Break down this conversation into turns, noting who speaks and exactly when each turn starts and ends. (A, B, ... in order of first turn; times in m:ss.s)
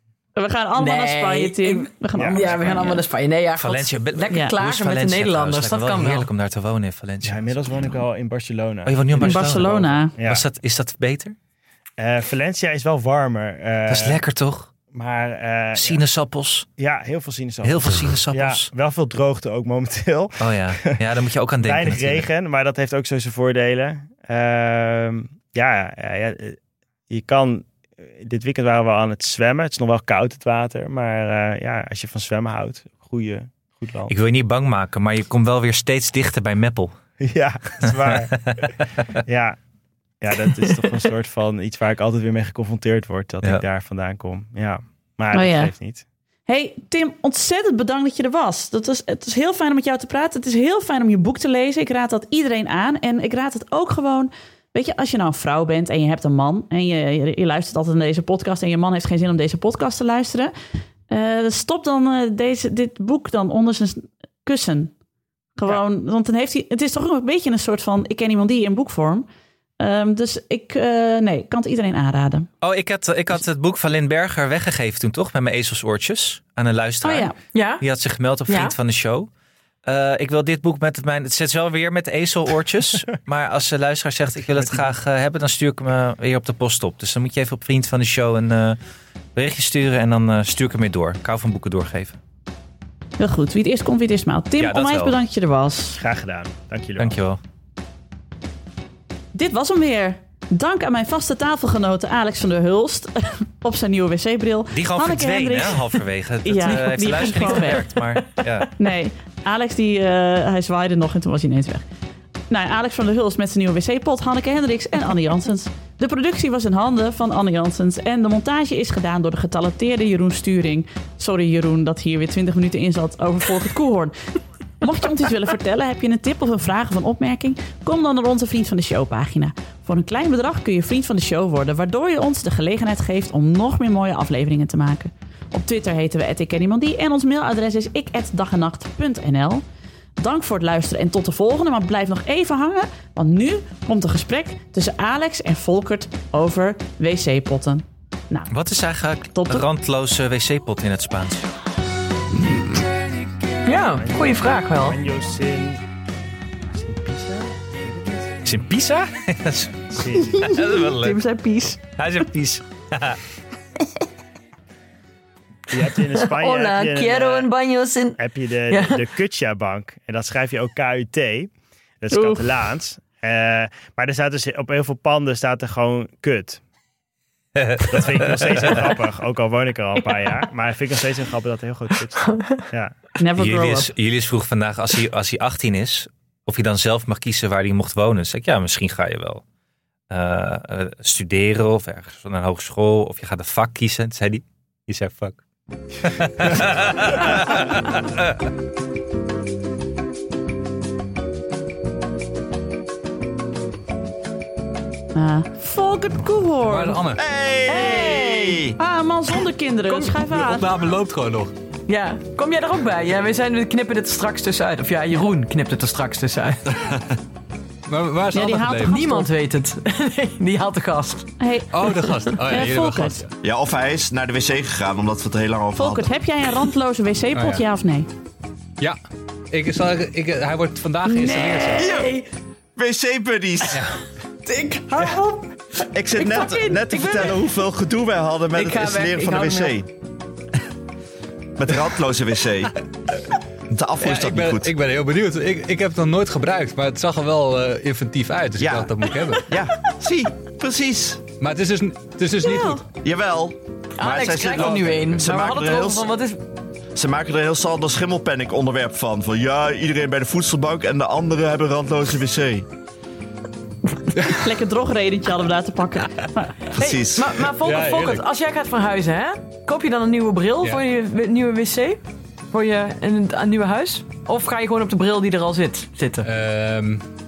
0:00.4-0:03.0 A
0:00.8-0:06.3 B
0:02.1-0:02.9 C
0:03.6-0:08.0 D
0:07.2-0:10.4 C
0:08.8-0:11.3 D
0:09.2-0:10.1 A
0:12.0-0:14.2 C
0:13.9-0:14.7 D
0:14.9-0:16.0 C
0:15.8-0:16.7 D
0:16.8-0:20.5 C
0:17.6-0:18.7 D
0:20.4-0:22.2 D
0:21.6-0:26.6 C
0:27.1-0:34.1 C
0:34.1-0:36.9 D
0:37.2-0:38.5 C
0:37.9-0:38.8 D
0:39.1-0:39.6 C
0:40.2-0:46.0 C
0:45.3-0:45.7 A
0:46.5-1:00.5 A
1:01.1-1:04.9 A
1:05.6-1:09.2 A
1:09.8-1:12.5 A
1:12.6-1:19.3 D
1:17.0-1:17.4 A
1:17.5-1:17.8 B
1:18.5-1:18.7 B
1:19.8-1:28.8 D
1:29.3-1:32.2 D
1:33.2-1:36.0 A
1:34.6-1:35.2 D
1:36.0-1:37.2 C
1:37.0-1:37.4 D
1:39.3-1:48.0 A
1:44.7-1:48.7 D
1:48.8-1:51.8 A
1:52.5-2:19.6 A
2:20.2-2:28.5 A
2:28.5-2:31.4 D
2:29.3-2:29.6 A
2:33.6-2:35.0 B
2:33.8-2:35.8 C
2:36.7-2:38.4 C
2:38.4-2:41.2 D
2:39.9-2:40.6 C
2:40.4-2:41.8 A
2:42.0-2:43.2 D
2:45.7-2:47.5 C
2:46.0-2:49.1 B
2:48.2-2:56.6 C
2:52.1-2:52.5 A
2:57.6-2:58.7 D
2:57.8-3:03.1 C
3:02.2-3:02.6 B
3:03.2-3:03.9 A
3:03.4-3:09.4 D
3:10.1-3:15.4 D
3:16.0-3:18.3 D
3:25.1-3:27.0 A
3:26.6-3:27.2 E
3:27.2-3:28.8 F
3:27.7-3:30.8 A
3:29.9-3:31.5 E
3:31.9-3:36.6 B
3:37.9-3:39.0 E
3:38.3-3:39.3 A
3:38.8-3:41.3 B
3:41.4-3:43.2 A
3:41.7-3:43.3 E
3:43.4-3:46.1 F
3:45.8-3:48.1 A
3:47.3-3:47.6 E
3:49.5-3:51.9 E
3:51.1-3:51.8 A
3:51.7-3:52.2 B
3:51.8-3:52.1 F
3:52.8-3:53.9 F
3:53.7-3:54.0 E
3:54.4-3:55.5 B
3:55.9-3:59.9 F
3:56.2-3:57.3 A
3:56.2-3:57.4 B
3:58.5-3:59.8 B
4:01.6-4:02.7 F
4:03.7-4:04.7 F
4:04.0-4:09.5 E
4:08.6-4:11.2 F
4:11.4-4:12.8 E
4:12.4-4:12.8 A
4:13.0-4:16.1 F
4:14.0-4:16.4 B
4:16.9-4:22.6 F
4:24.2-4:26.7 A
4:26.7-4:27.5 F
4:26.7-4:32.0 B
4:27.6-4:28.2 E
4:32.5-4:36.3 B
4:36.2-4:37.0 E